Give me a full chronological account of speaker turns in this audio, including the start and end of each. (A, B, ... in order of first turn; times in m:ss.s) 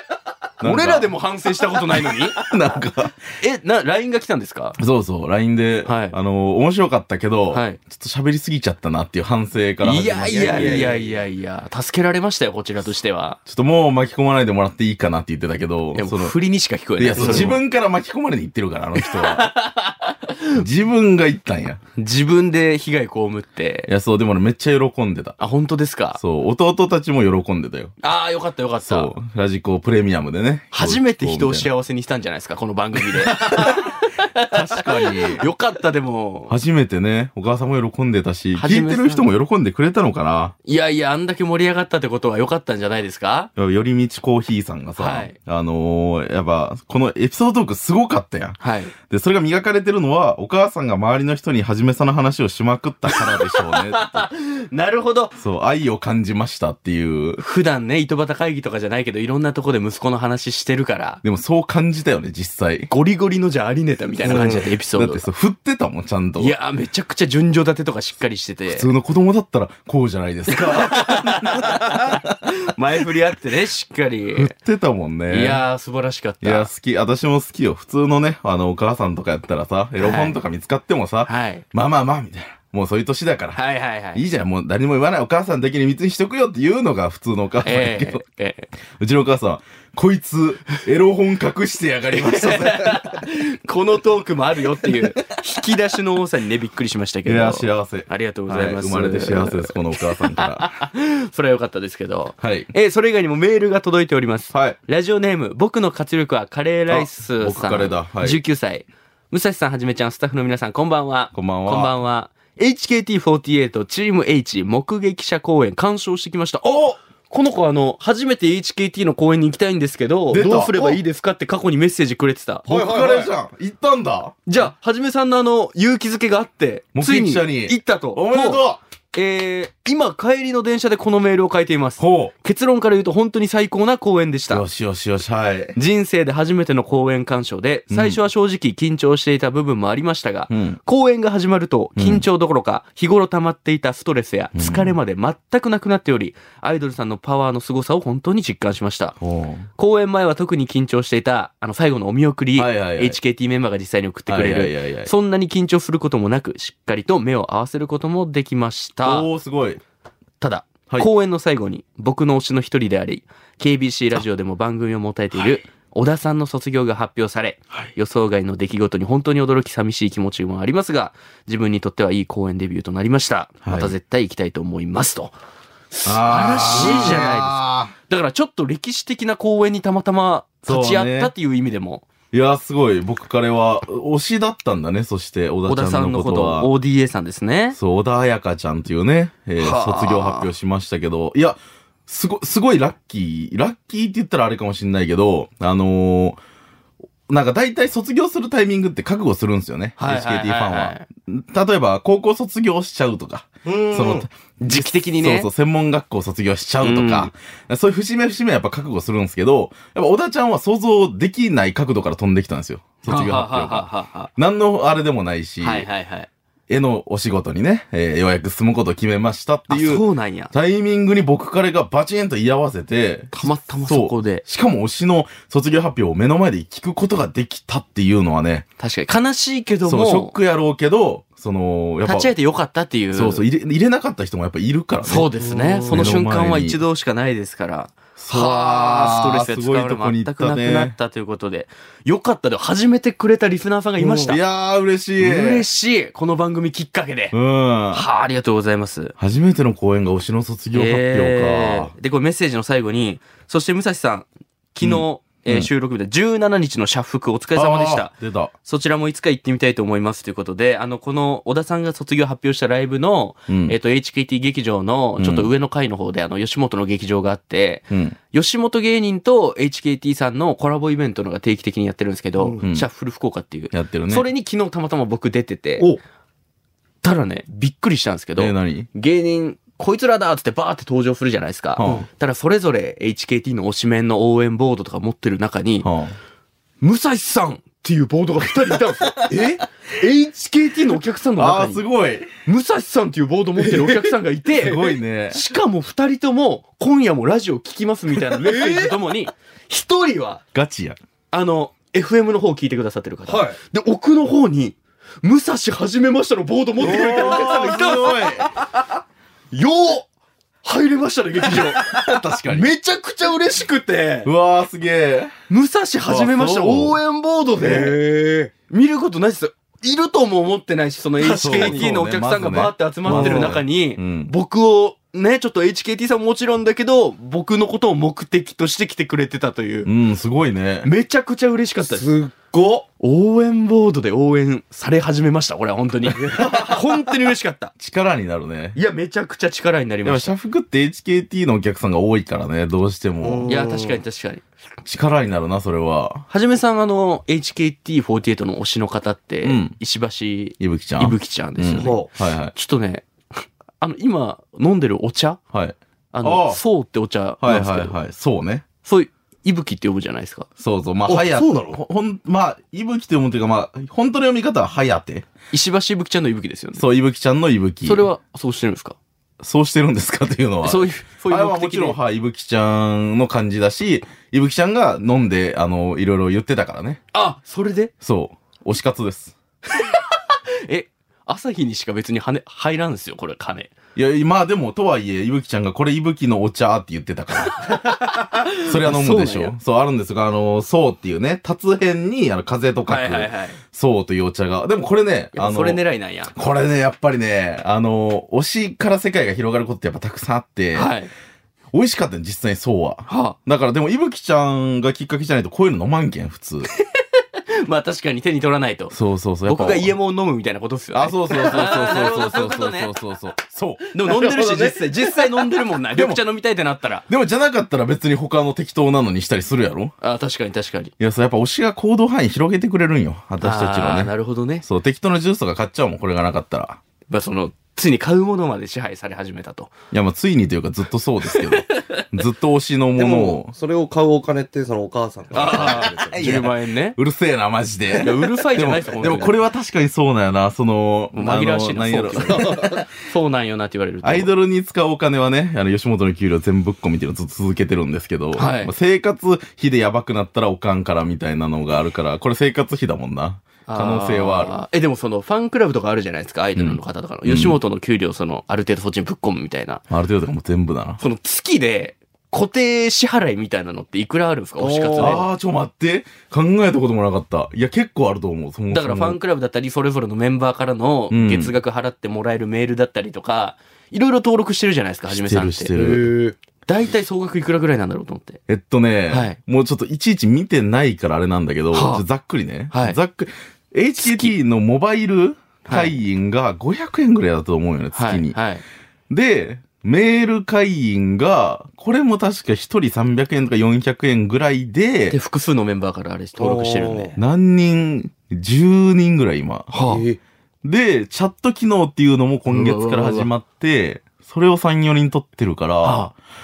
0:00.6-0:01.2 A
0:00.6-0:02.4 B
0:02.0-0:03.2 A
0:03.4-0:04.8 B
0:04.8-0:10.9 A
0:05.8-0:06.2 B
0:07.5-0:07.8 B
0:09.8-0:13.4 B
0:10.3-0:11.2 C
0:13.5-0:16.4 A
0:16.0-0:17.6 B
0:17.0-0:19.5 A
0:17.2-0:17.5 C
0:19.0-0:20.6 B
0:20.5-0:21.8 A
0:22.0-0:23.9 B
0:23.9-0:25.4 A
0:25.4-0:26.2 B
0:26.2-0:27.9 A
0:28.0-0:29.1 B
0:28.8-0:31.7 A
0:30.7-0:36.5 B
0:33.0-0:33.9 A
0:34.5-0:35.5 A
0:36.5-0:40.5 A
0:38.6-0:39.3 B
0:40.6-0:43.5 B
0:43.6-0:54.3 A
0:45.0-0:45.4 B
0:48.6-0:48.9 B
0:53.1-0:55.4 B
0:55.4-0:57.4 A
0:57.4-1:01.2 B
1:01.2-1:02.9 A
1:02.9-1:05.3 B
1:04.2-1:04.7 C
1:04.3-1:06.5 A
1:06.4-1:08.9 B
1:08.7-1:12.4 A
1:10.5-1:14.5 B
1:14.3-1:15.6 A
1:15.3-1:16.7 B
1:16.4-1:28.2 A
1:20.0-1:20.4 B
1:21.2-1:21.6 B
1:23.6-1:24.2 B
1:27.6-1:28.7 B
1:29.0-1:33.2 A
1:32.2-2:03.0 B
1:37.3-1:40.7 A
1:42.4-1:42.7 A
1:44.5-1:44.8 A
1:46.9-1:48.4 A
1:51.3-1:52.0 A
1:56.6-1:57.0 A
2:00.3-2:01.0 A
2:02.7-2:04.4 A
2:02.7-2:03.3 C
2:04.5-2:14.6 B
2:07.0-2:08.8 A
2:12.0-2:12.3 A
2:14.5-2:15.8 A
2:15.8-2:29.2 B
2:17.9-2:18.2 A
2:20.5-2:20.8 A
2:22.0-2:22.2 A
2:24.6-2:25.0 A
2:29.2-2:29.7 A
2:29.8-2:39.3 B
2:32.6-2:33.2 A
2:34.3-2:35.1 A
2:39.0-2:39.8 A
2:40.4-2:55.4 B
2:53.6-2:53.9 A
2:55.9-3:02.1 B
2:56.0-2:57.9 A
2:56.8-2:57.3 C
3:00.6-3:01.3 A
3:02.3-3:06.7 A
3:05.7-3:07.8 B
3:07.7-3:16.4 A
3:09.6-3:10.5 B
3:17.3-3:35.9 A
3:20.0-3:21.0 B
3:23.6-3:24.3 C
3:24.6-3:25.5 B
3:26.8-3:27.3 B
3:33.1-3:34.3 B
3:35.6-3:36.3 B
3:36.7-3:48.7 A
3:39.7-3:40.5 B
3:43.3-3:44.4 B
3:48.8-3:50.4 B
3:49.9-3:52.3 A
3:52.0-3:53.4 B
3:53.1-3:55.3 A
3:55.1-4:04.4 B
3:55.4-3:56.1 C
3:55.9-3:56.8 A
3:58.2-4:01.0 A
4:04.0-4:05.6 A
4:05.2-4:07.4 B
4:07.3-4:08.0 A
4:07.9-4:09.2 B
4:09.2-4:11.9 A
4:10.7-4:35.9 B
4:14.8-4:15.7 A
4:17.6-4:18.5 A
4:23.5-4:23.8 A
4:25.2-4:25.5 A
4:27.9-4:28.2 A
4:32.6-4:32.9 A
4:33.7-4:34.3 A
4:37.0-4:45.9 B
4:38.4-4:38.9 A
4:41.8-4:42.1 A
4:45.8-4:46.2 A
4:46.8-4:51.8 B
4:49.3-4:49.6 C
4:51.4-4:52.3 A
4:52.5-5:00.4 B
4:53.6-4:54.2 C
4:54.6-4:55.4 A
4:58.3-4:59.0 C
5:00.5-5:01.0 A
5:01.3-5:08.3 B
5:03.3-5:03.6 C
5:06.8-5:08.5 A
5:06.9-5:08.5 C
5:09.5-5:10.1 B
5:10.6-5:11.9 B
5:11.8-5:12.7 A
5:12.5-5:14.3 B
5:14.2-5:15.3 A
5:15.5-5:18.0 B
5:16.1-5:17.0 A
5:17.6-5:18.5 C
5:18.7-5:29.9 B
5:21.2-5:21.9 C
5:21.3-5:24.3 A
5:23.1-5:23.6 C
5:29.8-5:30.9 A
5:30.8-5:32.1 B
5:31.9-5:32.9 C
5:33.0-5:37.7 B
5:36.1-5:36.7 A
5:36.2-5:36.8 C
5:37.8-5:38.8 A
5:38.8-5:40.3 B
5:40.0-5:43.5 A
5:43.2-5:44.0 C
5:43.5-5:44.4 B
5:44.8-5:46.3 A
5:46.3-5:55.4 B
5:49.4-5:49.8 A
5:50.6-5:52.5 A
5:51.8-5:52.1 C
5:55.5-5:56.6 A
5:56.1-5:58.0 B
5:57.4-5:58.7 A
5:58.8-6:00.5 B
6:00.6-6:05.3 A
6:01.1-6:01.8 C
6:05.5-6:06.8 B
6:06.8-6:08.1 A
6:07.8-6:09.0 B
6:09.4-6:17.0 A
6:10.6-6:12.0 B
6:17.1-6:17.9 B
6:18.0-6:19.4 A
6:19.7-6:23.7 B
6:24.0-6:27.8 A
6:27.5-6:29.5 B
6:28.6-6:35.8 A
6:32.9-6:33.6 B
6:35.4-6:36.3 B
6:36.3-6:40.9 A
6:40.7-6:41.1 B
6:41.7-6:46.7 A
6:43.1-6:43.4 B
6:47.6-6:52.9 B
6:48.9-6:49.9 A
6:50.9-6:54.3 A
6:53.9-6:57.0 B
6:54.2-6:55.4 C
6:55.9-6:56.2 A
6:57.1-7:00.0 A
7:00.0-7:00.9 B
7:01.0-7:06.8 A
7:03.4-7:04.6 B
7:07.1-7:09.7 B
7:09.9-7:13.5 A
7:11.3-7:12.0 B
7:13.0-7:16.5 C
7:15.3-7:17.0 B
7:15.3-7:22.9 A
7:18.0-7:19.4 B
7:21.1-7:24.3 B
7:22.2-7:22.8 C
7:24.0-7:34.6 A
7:28.4-7:28.7 B
7:33.7-7:39.8 B
7:36.6-7:37.6 A
7:39.9-7:41.0 A
7:41.0-7:45.2 B
7:44.6-7:45.2 C
7:45.0-7:49.2 A
7:48.7-7:55.7 B
7:51.1-7:51.5 A
7:55.1-7:56.1 A
7:55.7-7:56.4 C
7:56.7-7:58.4 B
7:58.5-8:08.4 A
7:59.1-7:59.4 B
8:01.7-8:02.0 B
8:02.7-8:03.0 B
8:04.0-8:04.3 B
8:05.7-8:06.0 B
8:07.9-8:08.6 B
8:09.1-8:15.2 A
8:15.1-8:17.2 B
8:16.4-8:17.2 C
8:17.2-8:19.8 A
8:19.7-8:20.1 B
8:19.8-8:20.2 C
8:20.6-8:26.1 A
8:22.5-8:23.3 B
8:25.8-8:26.1 B